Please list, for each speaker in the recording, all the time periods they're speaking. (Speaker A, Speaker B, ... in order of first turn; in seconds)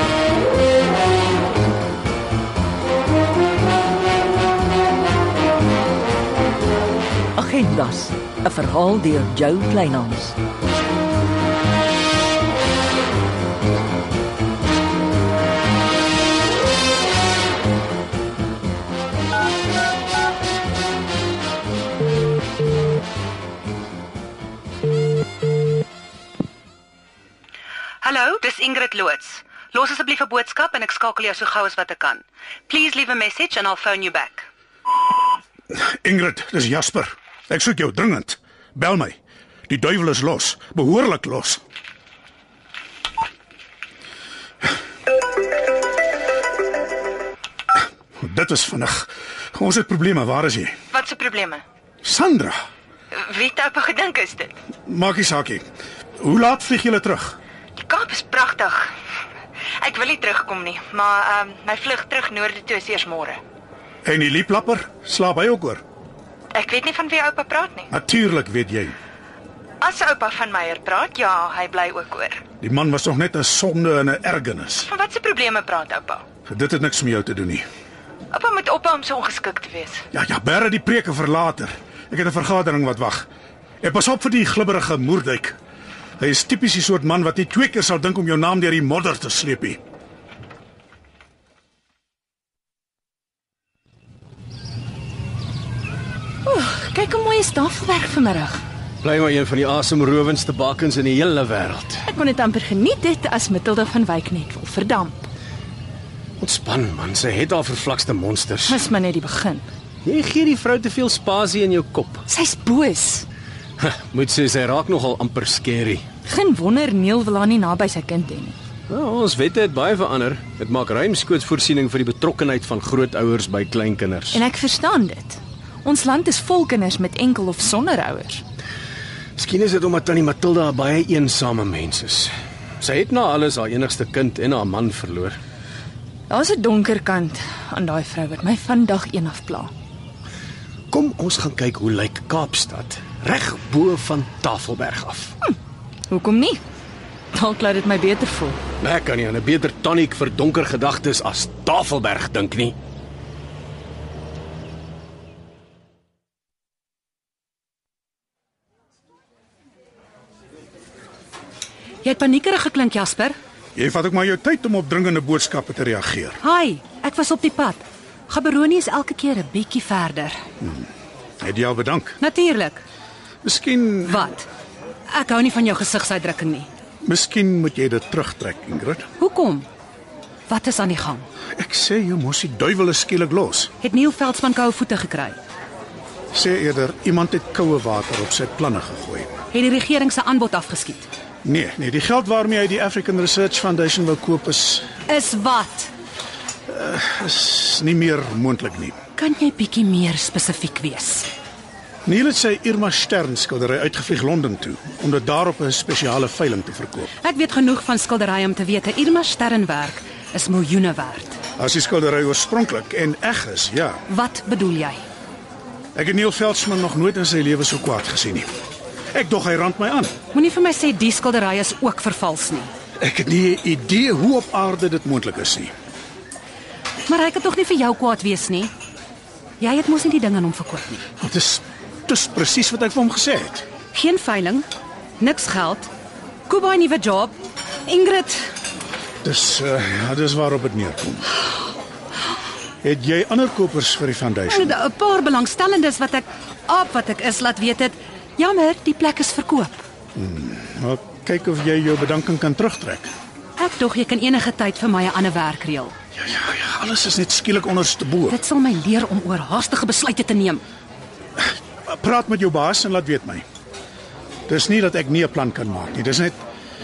Speaker A: 7.4-10.4
Speaker B: 29.0-29.4, 50.9-51.6, 53.3-54.5, 57.8-58.9, 59.8-63.4, 66.5-67.9, 69.8-72.4, 74.9-76.2, 78.3-80.0
Speaker C: 35.7-39.2, 39.7-41.6, 48.2-50.8, 52.0-52.6, 54.9-55.6, 56.2-57.4, 64.0-65.8, 67.9-69.0, 72.6-74.9, 76.5-77.7, 80.1-83.2, 83.8-85.5, 86.2-89.8, 163.8-166.4, 170.6-170.9, 171.4-172.2, 173.4-174.3, 177.0-179.1, 181.6-183.7, 186.3-189.3, 191.4-194.8, 196.7-199.0, 202.1-207.1, 211.6-214.0, 215.9-218.5, 219.1-220.1, 223.0-225.7, 231.2-233.7, 239.2-241.2, 242.8-244.7, 250.2-253.1, 256.2-258.4, 261.4-263.4, 264.5-266.4
Speaker D: 96.5-98.6, 102.1-105.3, 108.7-109.7, 112.3-113.3, 116.2-118.6, 124.3-128.4, 136.3-139.7, 146.1-146.6, 147.3-148.6
Speaker E: 99.0-102.0, 106.4-108.9, 110.0-112.2, 113.8-116.0, 118.9-124.4, 129.4-135.4, 140.9-145.4, 148.8-152.8
Speaker F: 162.0-163.4, 166.4-170.4, 172.2-172.8, 174.1-174.4, 175.1-176.7, 179.2-179.7, 180.5-181.3, 183.8-185.4, 189.5-191.1, 195.1-195.9, 199.2-201.3, 207.2-211.4, 214.1-215.0, 220.3-222.7, 227.1-228.7, 229.6-231.0, 233.9-234.7, 235.2-235.9, 236.5-237.3, 237.8-238.4, 244.5-249.8, 253.6-255.9, 258.3-260.6